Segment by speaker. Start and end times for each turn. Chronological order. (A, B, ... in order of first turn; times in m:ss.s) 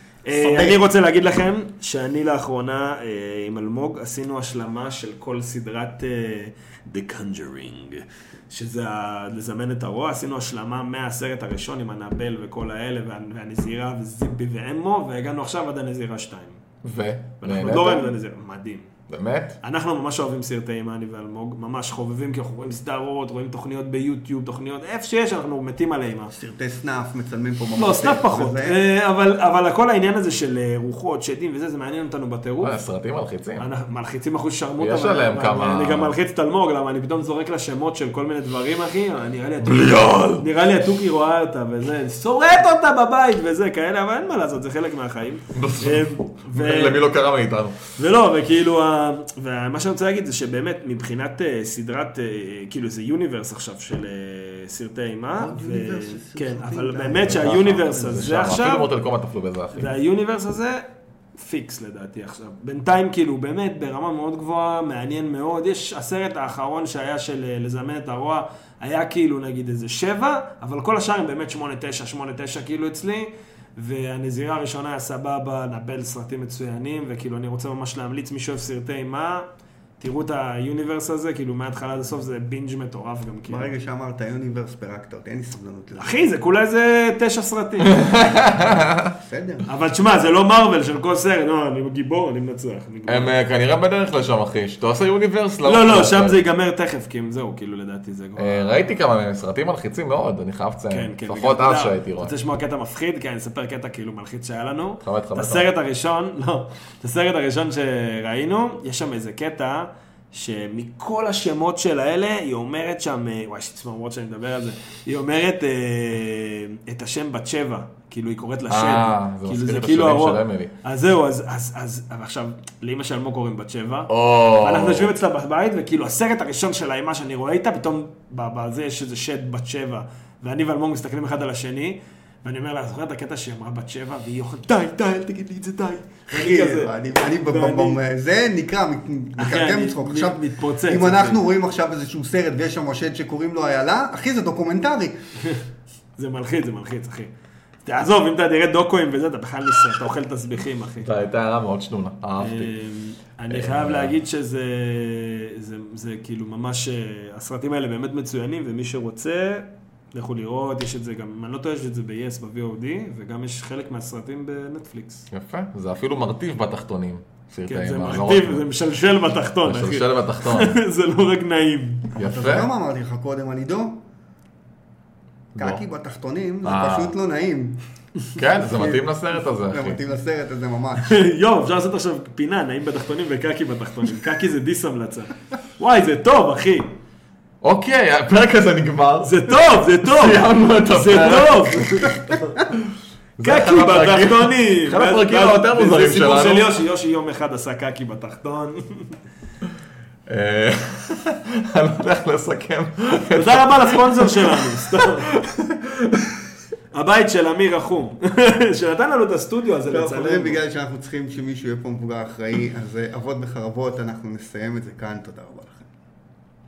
0:00.2-0:16.6 A
0:00.4-0:00.8 B
0:16.8-0:18.1 C
0:17.4-0:18.9 A
0:19.1-0:19.6 C
0:19.6-0:26.3 A
0:26.3-0:28.8 B
0:27.8-0:32.8 A
0:32.6-0:33.7 C
0:33.6-0:47.0 A
0:34.8-0:36.2 C
0:39.6-0:40.5 C
0:45.6-0:47.8 C
0:48.0-0:58.9 A
0:55.4-0:58.2 B
0:57.2-0:59.9 C
0:59.7-1:00.8 A
1:01.4-1:19.5 A
1:20.0-1:23.7 A
1:23.5-1:26.1 B
1:26.0-1:28.3 A
1:27.9-1:29.2 C
1:29.2-1:29.7 B
1:29.7-1:33.3 A
1:33.1-1:36.4 C
1:35.6-1:38.8 A
1:38.4-1:42.3 C
1:40.9-2:04.1 A
1:45.0-1:45.7 C
1:58.7-2:00.7 C
2:04.1-2:05.1 C
2:04.6-2:18.0 A
2:16.3-2:25.2 B
2:19.4-2:21.4 A
2:26.2-2:27.3 A
2:27.9-2:31.1 A
2:31.0-2:32.7 C
2:32.4-2:45.3 A
2:33.5-2:34.2 C
2:45.3-2:48.7 C
2:47.7-2:52.1 A
2:49.6-2:50.8 C
2:52.2-2:52.7 C
2:52.2-2:54.0 B
2:55.6-2:55.8 C
2:55.6-2:57.8 B
2:56.6-2:57.1 C
2:58.3-3:00.0 C
2:59.7-3:01.2 B
3:01.0-3:07.0 A
3:07.6-3:11.9 C
3:09.2-3:12.6 A
3:12.7-3:16.7 C
3:13.4-3:19.2 A
3:20.3-3:26.3 C
3:23.3-3:25.3 A
3:26.9-3:30.6 A
3:29.9-3:35.9 B